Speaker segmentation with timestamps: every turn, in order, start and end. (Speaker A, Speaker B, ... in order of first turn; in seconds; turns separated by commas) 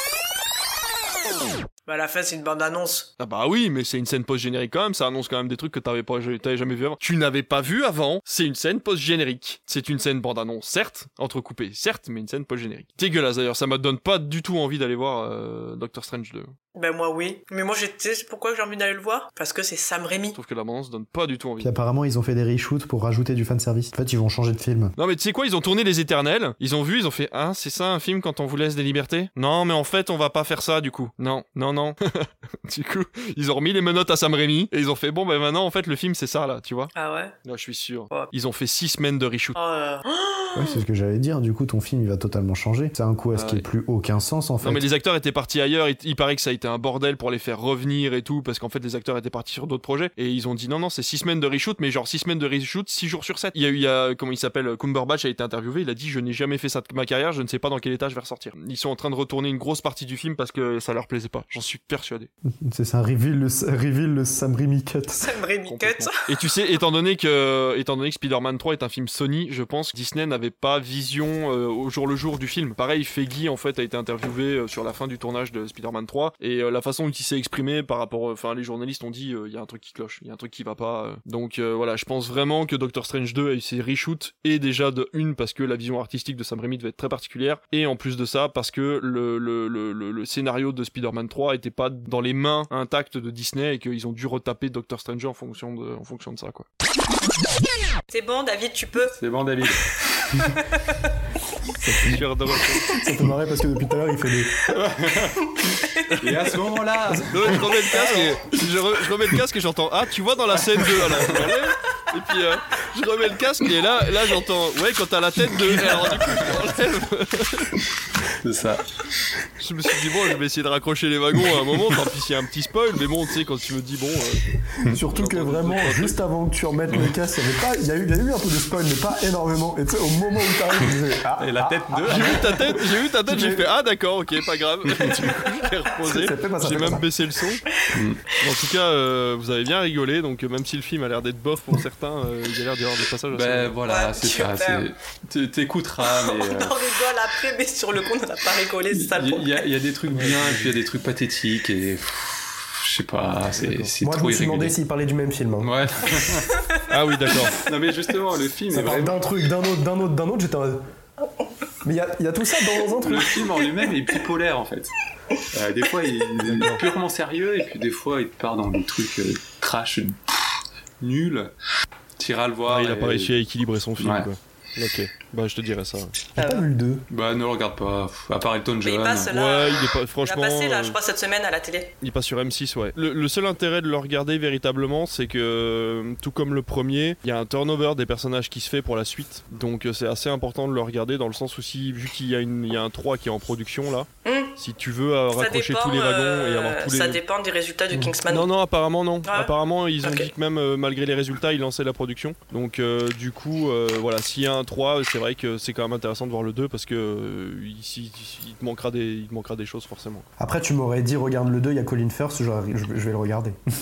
Speaker A: 1.9-3.1, Speaker B: 3.2-16.5, Speaker A: 16.8-20.4, Speaker B: 20.4-21.8, Speaker C: 21.6-24.9, Speaker B: 25.0-36.9, Speaker A: 36.9-37.3, Speaker B: 37.4-39.6, Speaker A: 39.6-40.8, Speaker C: 40.5-44.9, Speaker B: 43.3-43.6, Speaker B: 44.6-62.3, Speaker C: 62.5-65.3, Speaker A: 65.2-66.2, Speaker B: 65.7-96.7, Speaker A: 98.1-99.2, Speaker D: 99.1-100.6, Speaker A: 100.6-101.1, Speaker C: 101.8-102.2, Speaker B: 102.0-103.0, Speaker C: 102.9-104.6, Speaker D: 104.7-107.6, Speaker B: 107.3-117.8, Speaker A: 107.9-108.4, Speaker D: 116.2-116.5, Speaker D: 118.4-118.9, Speaker B: 119.6-124.6, Speaker C: 124.8-133.7, Speaker B: 125.2-126.2, Speaker D: 131.4-132.6, Speaker B: 132.1-137.7, Speaker D: 134.9-135.1, Speaker C: 136.0-137.1, Speaker D: 137.9-138.2, Speaker B: 138.3-143.8, Speaker D: 143.3-147.0, Speaker A: 143.9-144.9, Speaker A: 146.0-149.7, Speaker D: 148.9-154.8, Speaker B: 150.1-150.7, Speaker B: 153.5-153.9, Speaker C: 154.0-155.7, Speaker D: 155.6-156.6, Speaker A: 156.5-156.9, Speaker B: 156.9-157.7, Speaker D: 157.5-159.2, Speaker C: 158.7-160.8, Speaker C: 161.8-163.5, Speaker D: 163.0-164.9, Speaker D: 165.5-170.2, Speaker B: 166.5-166.8, Speaker D: 171.0-171.5, Speaker D: 172.2-173.3, Speaker B: 172.7-176.2, Speaker D: 174.0-174.3, Speaker C: 176.4-177.0, Speaker A: 176.4-176.7, Speaker D: 177.1-179.3, Speaker A: 178.8-181.9, Speaker B: 179.3-181.0, Speaker B: 182.0-197.2, Speaker A: 194.2-194.5, Speaker A: 195.3-198.5, Speaker B: 198.3-210.3, Speaker A: 199.2-200.3, Speaker C: 210.4-213.6